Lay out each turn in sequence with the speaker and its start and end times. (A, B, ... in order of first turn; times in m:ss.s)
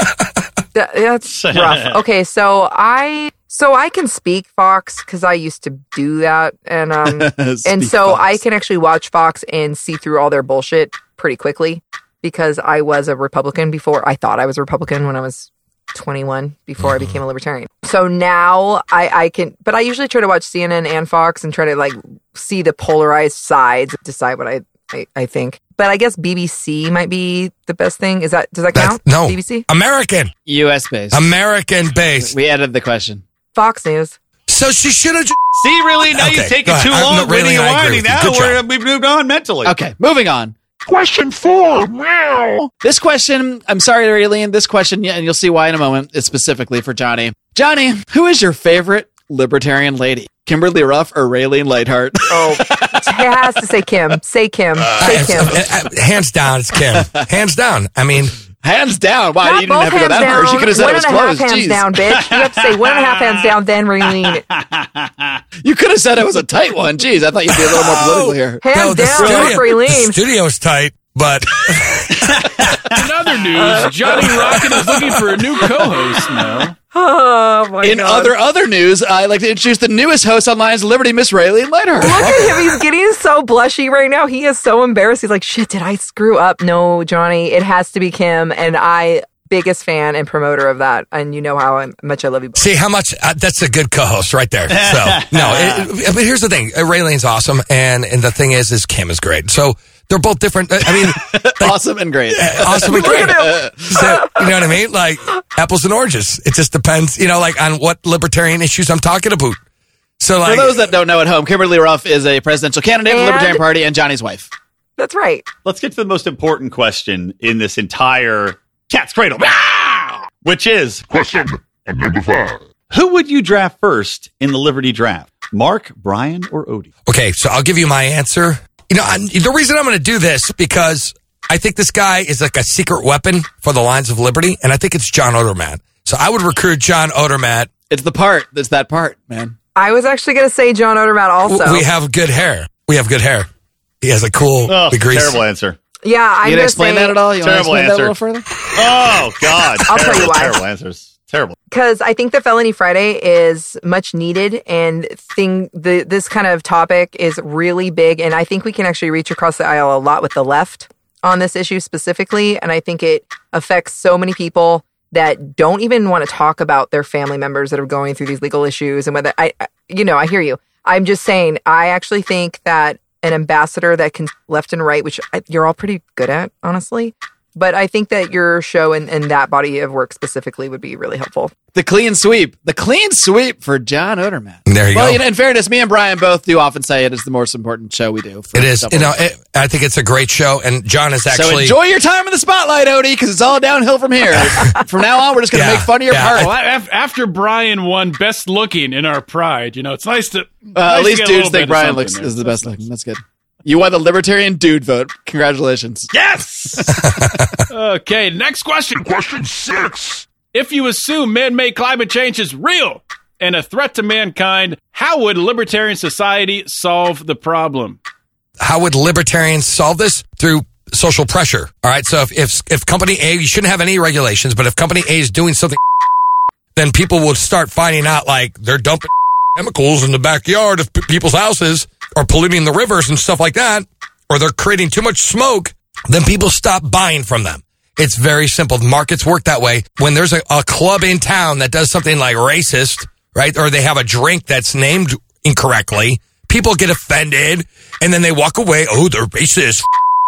0:00.8-0:29.7 A
0:01.3-0:02.0 B
0:07.0-0:08.4 C
0:16.8-0:17.1 D
0:28.7-0:30.3 D
0:30.5-0:31.3 C
0:31.1-0:32.3 D
0:32.2-0:33.2 C
0:33.6-0:34.2 A
0:34.5-0:35.4 D
0:35.6-0:39.8 B
0:36.0-0:38.6 D
0:39.6-0:53.4 C
0:52.3-0:55.6 A
0:55.0-0:58.4 D
0:56.8-0:57.3 C
0:58.6-1:01.9 C
0:59.4-1:04.4 A
1:02.8-1:03.3 B
1:04.5-1:05.4 B
1:05.6-1:08.6 C
1:07.7-1:08.0 D
1:08.6-1:10.2 A
1:08.7-1:12.7 D
1:09.2-1:09.6 C
1:12.9-1:16.8 E
1:14.2-1:15.0 D
1:16.9-1:18.3 A
1:17.8-1:22.7 C
1:22.0-1:32.7 A
1:32.6-1:49.6 D
1:34.7-1:35.9 B
1:40.9-1:44.1 C
1:42.8-1:44.4 A
1:50.2-1:50.9 D
1:50.4-1:54.5 C
1:53.1-1:53.6 A
1:55.0-1:55.4 A
1:55.6-2:02.1 B
2:02.9-2:06.9 B
2:07.1-2:17.7 D
2:17.9-2:19.6 C
2:19.8-2:21.8 A
2:21.5-2:23.5 D
2:24.0-2:25.4 D
2:24.7-2:25.8 B
2:26.0-2:27.2 A
2:26.4-2:28.4 C
2:27.4-2:31.6 B
2:29.9-2:30.6 A
2:31.7-3:01.5 A
3:01.7-3:09.2 C
3:04.7-3:05.2 D
3:08.6-3:11.8 D
3:11.3-3:16.5 C
3:14.4-3:14.8 D
3:15.5-3:16.5 D
3:16.4-3:22.8 E
3:20.8-3:26.1 C
3:26.1-3:26.9 B
3:26.8-3:27.2 C
3:27.1-3:27.6 D
3:27.7-3:38.0 E
3:38.6-3:45.8 D
3:46.8-4:09.9 D